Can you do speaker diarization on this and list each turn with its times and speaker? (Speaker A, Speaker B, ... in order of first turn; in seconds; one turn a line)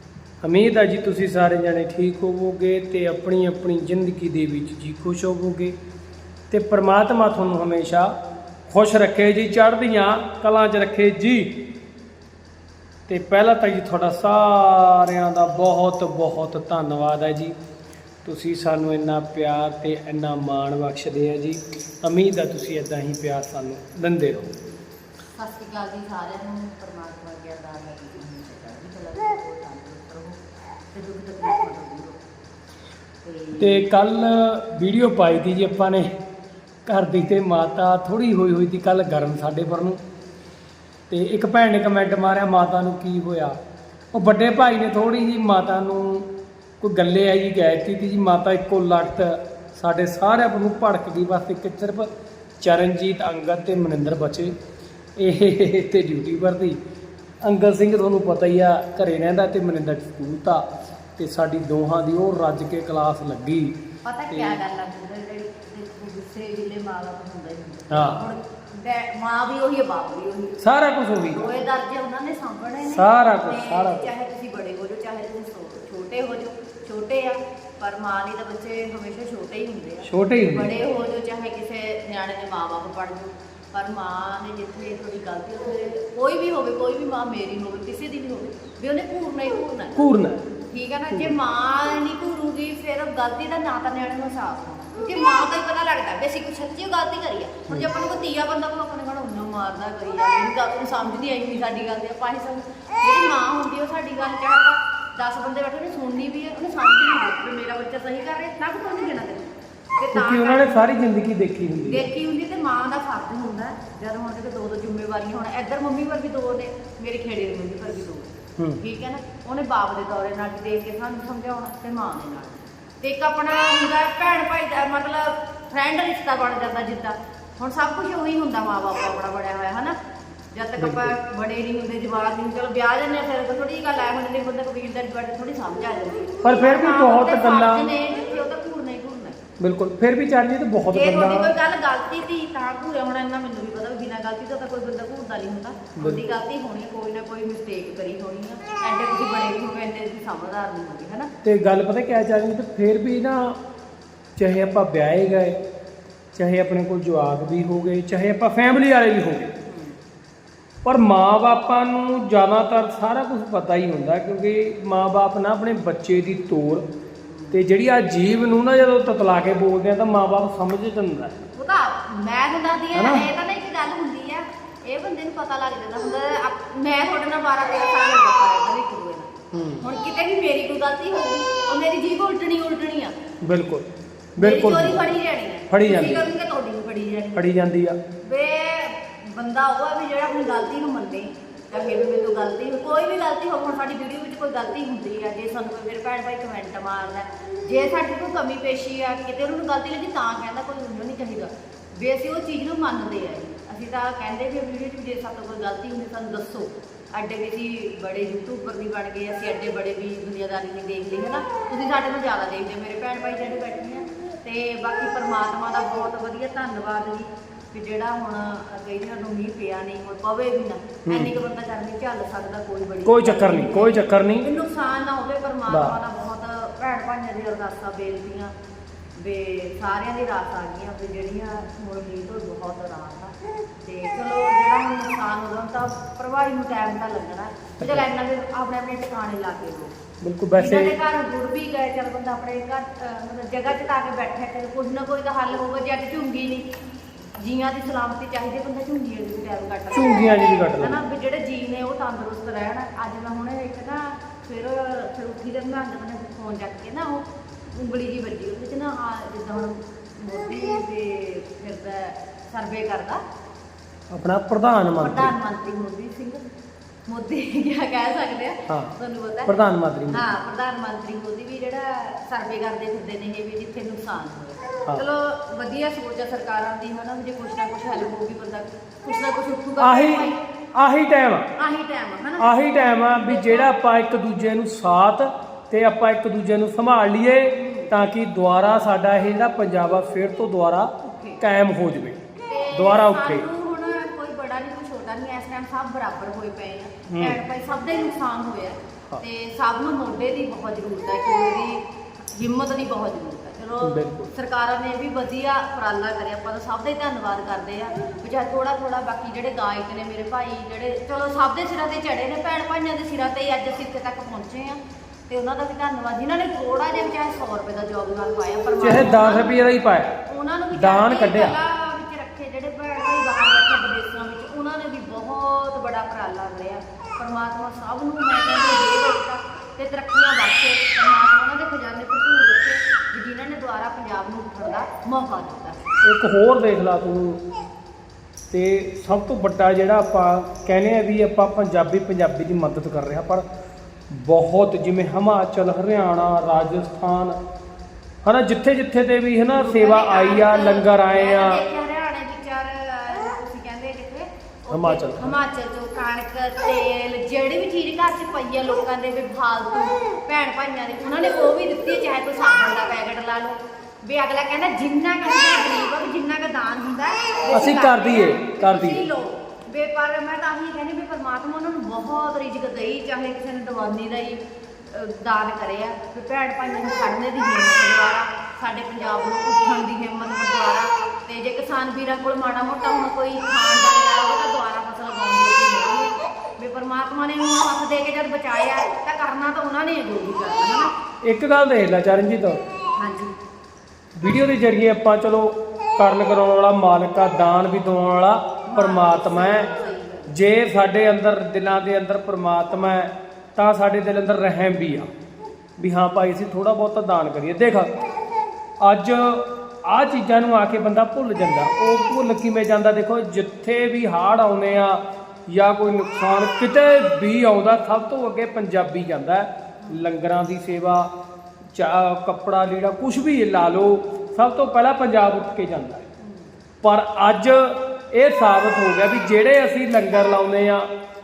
Speaker A: 0.4-5.8
Speaker A: 6.5-8.1
Speaker A: 8.7-11.6
Speaker A: 13.1-17.6
Speaker A: 18.2-24.5
Speaker B: 25.3-30.4
Speaker B: 30.9-32.2
Speaker B: 33.2-33.9
Speaker A: 33.6-36.1
Speaker A: 36.9-40.0
Speaker A: 41.1-43.6
Speaker A: 44.1-46.3
Speaker A: 46.8-54.5
Speaker A: 55.2-56.8
Speaker A: 57.4-60.6
Speaker A: 61.2-63.8
Speaker B: 64.0-70.6
Speaker A: 64.3-64.6
Speaker A: 67.9-68.3
Speaker A: 70.6-71.5
Speaker B: 71.3-90.0
Speaker A: 72.8-74.1
Speaker A: 80.1-80.8
Speaker A: 90.0-90.5
Speaker B: 90.6-110.8
Speaker A: 91.1-91.4
Speaker A: 110.1-112.1
Speaker B: 111.9-130.0
Speaker B: 130.5-139.4
Speaker A: 130.8-131.2
Speaker A: 136.4-137.9
Speaker A: 139.6-141.5
Speaker B: 140.9-151.3
Speaker A: 146.0-146.3
Speaker A: 151.4-153.6
Speaker A: 154.4-155.6
Speaker A: 156.3-159.5
Speaker B: 159.7-160.0
Speaker A: 160.8-166.9
Speaker B: 167.3-167.6
Speaker A: 167.5-171.4
Speaker B: 171.5-183.2
Speaker A: 172.9-173.3
Speaker A: 179.5-179.9
Speaker A: 183.4-185.0
Speaker B: 184.4-187.5
Speaker A: 185.7-186.3
Speaker A: 187.4-188.0
Speaker B: 188.2-228.5
Speaker A: 221.1-221.3
Speaker A: 223.1-224.5
Speaker A: 225.7-226.0
Speaker B: 229.2-239.9
Speaker A: 237.8-238.1
Speaker A: 240.2-240.9
Speaker B: 240.6-246.7
Speaker B: 247.3-263.2
Speaker A: 249.9-251.1
Speaker A: 264.1-265.3
Speaker B: 265.0-266.4
Speaker B: 267.1-280.4
Speaker A: 268.7-268.9
Speaker A: 269.5-270.3
Speaker A: 279.8-281.5
Speaker B: 281.6-283.7
Speaker A: 282.4-293.4
Speaker B: 287.6-288.0
Speaker B: 291.0-291.4
Speaker B: 292.5-319.6
Speaker A: 297.1-297.4
Speaker A: 303.8-304.3
Speaker A: 318.8-320.2
Speaker B: 320.2-335.9
Speaker A: 320.7-321.6
Speaker A: 336.0-337.4
Speaker A: 338.5-343.5
Speaker A: 344.1-347.4
Speaker A: 348.2-351.6
Speaker B: 349.5-390.9
Speaker A: 354.7-355.4
Speaker A: 367.5-369.1
Speaker A: 391.2-392.6
Speaker B: 392.9-393.3
Speaker A: 394.2-399.7
Speaker B: 398.7-400.3
Speaker A: 400.3-405.1
Speaker A: 405.8-407.9
Speaker A: 408.8-421.1
Speaker A: 421.7-426.1
Speaker B: 426.2-426.5
Speaker A: 426.8-430.9